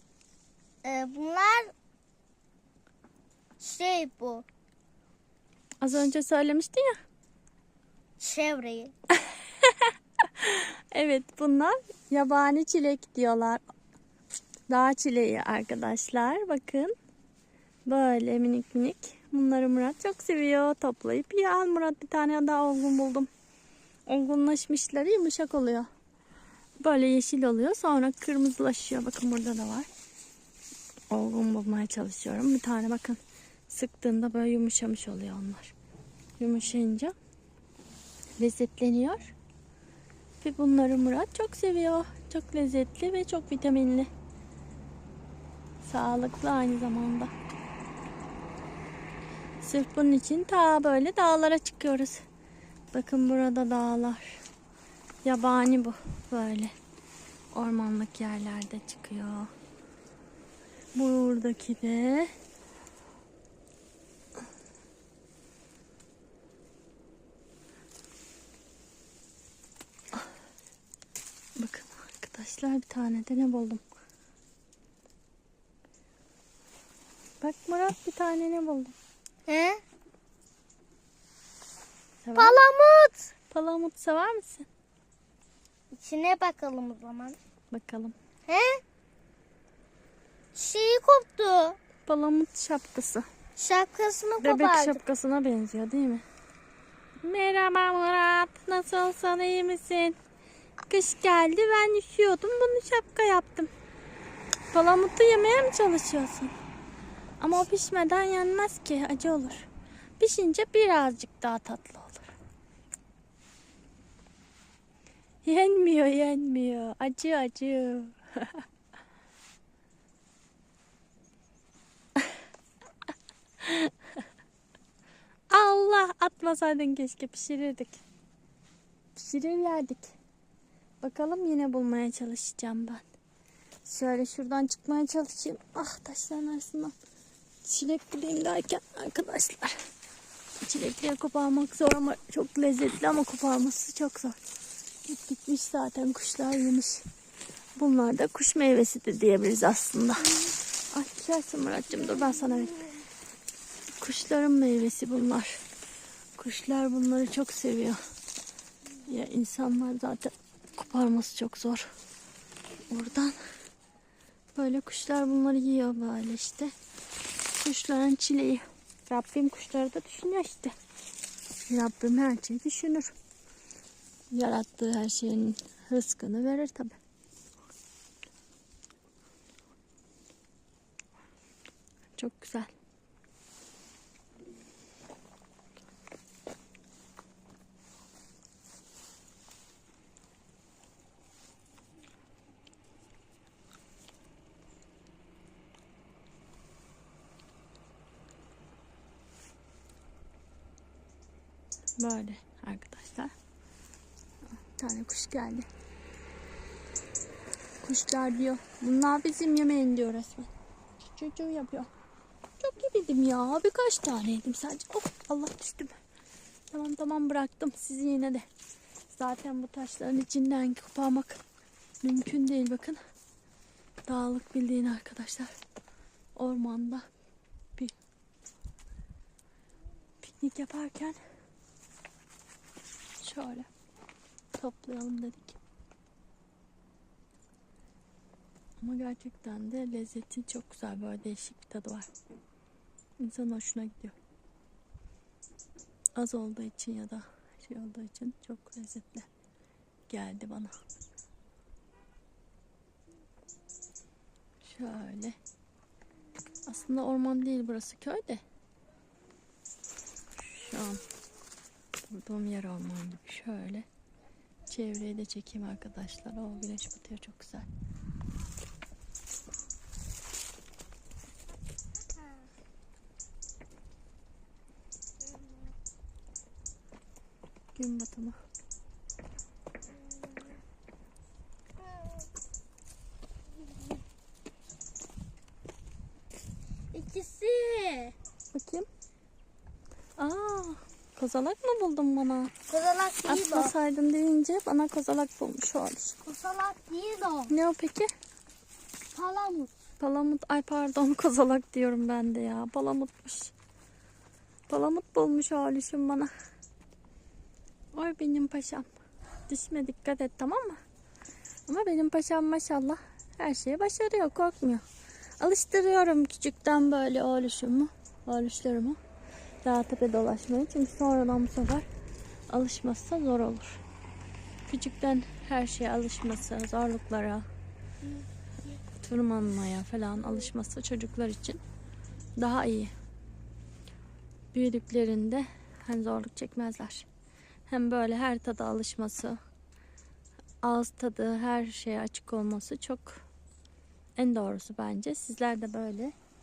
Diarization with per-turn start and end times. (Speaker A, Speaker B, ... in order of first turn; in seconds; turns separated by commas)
Speaker A: 0.8-1.7, Speaker A: 3.6-4.5, Speaker B: 5.8-7.0, Speaker A: 8.2-8.9, Speaker B: 10.4-13.6, Speaker B: 14.7-16.9, Speaker B: 17.9-23.3, Speaker B: 24.1-25.9, Speaker B: 26.8-29.9, Speaker B: 31.1-35.7, Speaker B: 36.4-37.1, Speaker B: 38.4-39.3, Speaker B: 40.4-44.1, Speaker B: 45.8-47.3, Speaker B: 49.6-52.2, Speaker B: 52.9-54.4, Speaker B: 55.2-56.7, Speaker B: 57.5-59.5, Speaker B: 61.0-62.3, Speaker B: 71.6-73.8, Speaker B: 77.4-79.0, Speaker A: 79.5-79.8, Speaker B: 82.2-82.6, Speaker A: 82.4-83.3, Speaker B: 83.5-84.7, Speaker A: 85.9-87.4, Speaker B: 87.7-88.2, Speaker A: 88.5-88.8, Speaker A: 90.5-91.8, Speaker B: 92.1-93.3, Speaker A: 93.6-95.0, Speaker B: 94.4-96.2, Speaker B: 97.2-100.2, Speaker B: 100.9-103.7, Speaker B: 104.7-106.5, Speaker B: 107.4-109.7, Speaker B: 110.2-112.3, Speaker B: 115.5-118.6, Speaker B: 123.6-123.9, Speaker B: 125.5-128.0, Speaker B: 129.2-130.1, Speaker B: 131.0-133.0, Speaker B: 133.9-136.9, Speaker B: 137.6-139.8, Speaker B: 140.6-144.4, Speaker B: 145.1-147.1, Speaker B: 147.8-150.4, Speaker B: 150.9-152.8, Speaker B: 154.0-155.6, Speaker B: 156.4-158.0, Speaker B: 159.1-161.9, Speaker B: 162.9-163.4, Speaker B: 164.6-166.7, Speaker B: 167.5-170.7, Speaker B: 171.7-173.1, Speaker B: 174.3-177.0, Speaker B: 182.2-182.7, Speaker B: 202.0-203.3, Speaker B: 204.8-205.7, Speaker B: 207.8-210.5, Speaker B: 211.1-211.9, Speaker B: 212.6-215.9, Speaker B: 216.7-218.4, Speaker B: 219.1-221.4, Speaker B: 222.0-223.0, Speaker B: 224.1-225.5, Speaker B: 226.3-227.1, Speaker B: 230.2-231.2, Speaker B: 233.2-233.7, Speaker B: 234.5-235.6, Speaker B: 238.8-242.1, Speaker B: 243.2-244.1, Speaker B: 246.2-249.3, Speaker B: 250.1-250.7, Speaker B: 254.6-255.4, Speaker B: 256.7-258.4, Speaker B: 260.4-261.0, Speaker B: 262.1-263.9, Speaker B: 264.7-267.7, Speaker B: 277.8-278.4, Speaker A: 286.9-288.1, Speaker B: 288.5-288.9, Speaker B: 290.2-292.5, Speaker A: 292.7-293.7, Speaker B: 293.3-296.2, Speaker A: 296.2-297.5, Speaker B: 297.5-298.1, Speaker A: 299.1-299.7, Speaker B: 300.0-303.5, Speaker B: 304.7-306.3, Speaker B: 307.9-308.9, Speaker B: 309.5-310.8, Speaker B: 311.7-314.8, Speaker B: 315.4-319.0, Speaker B: 319.6-321.9, Speaker B: 322.5-323.8, Speaker B: 324.7-327.4, Speaker B: 329.0-331.6, Speaker B: 332.4-332.9, Speaker B: 334.5-337.1, Speaker B: 337.7-339.4, Speaker B: 340.6-343.2, Speaker B: 344.2-346.1